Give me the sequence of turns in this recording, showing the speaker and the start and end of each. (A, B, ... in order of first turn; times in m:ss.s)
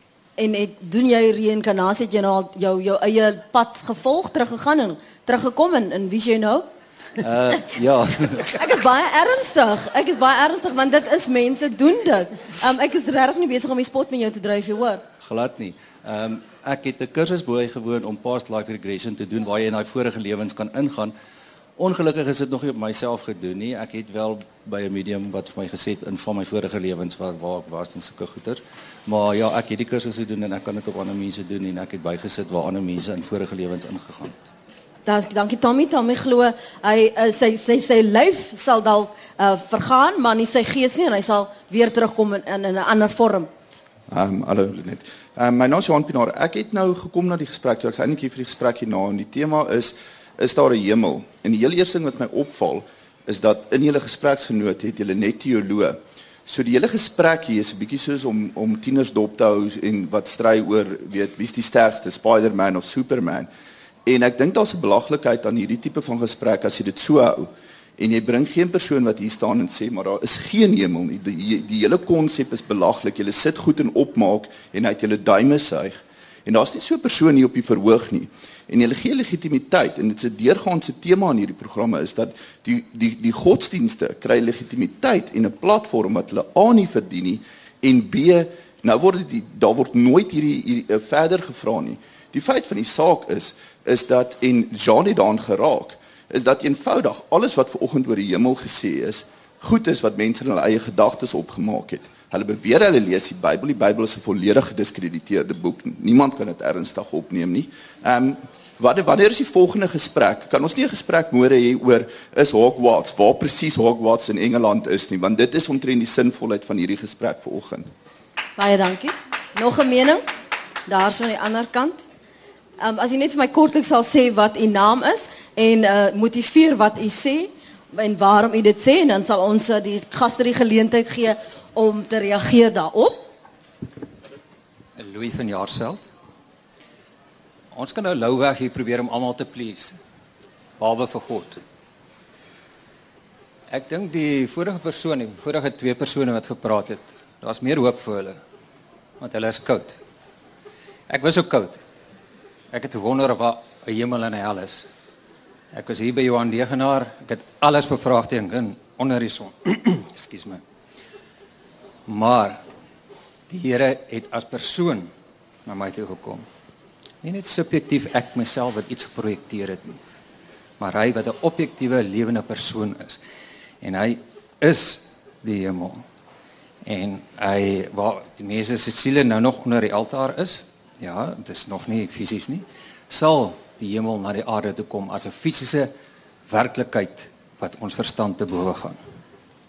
0:00.4-0:06.7 A
0:07.2-0:08.6 B
0:08.6-0:15.0 A
0:15.2-0:21.1 B
0:21.8-0:34.4 B
0:35.1-0:43.5 A
0:44.1-1:03.5 C
1:04.1-1:57.9 C
1:58.6-2:00.2 A
2:00.9-2:02.0 A
2:02.8-2:13.2 A
2:15.0-2:16.1 D
2:17.7-2:20.0 D
2:20.8-2:21.6 D
2:23.7-2:28.4 D
2:29.2-2:30.0 D
2:31.1-2:31.8 D
2:32.7-2:34.9 D
2:35.7-2:40.6 D
2:42.1-2:42.6 D
2:43.5-2:45.1 D
2:45.7-2:46.4 D
2:47.2-2:50.0 D
2:50.8-2:53.2 D
2:53.8-2:56.0 D
2:56.9-3:05.9 D
3:06.5-3:09.0 D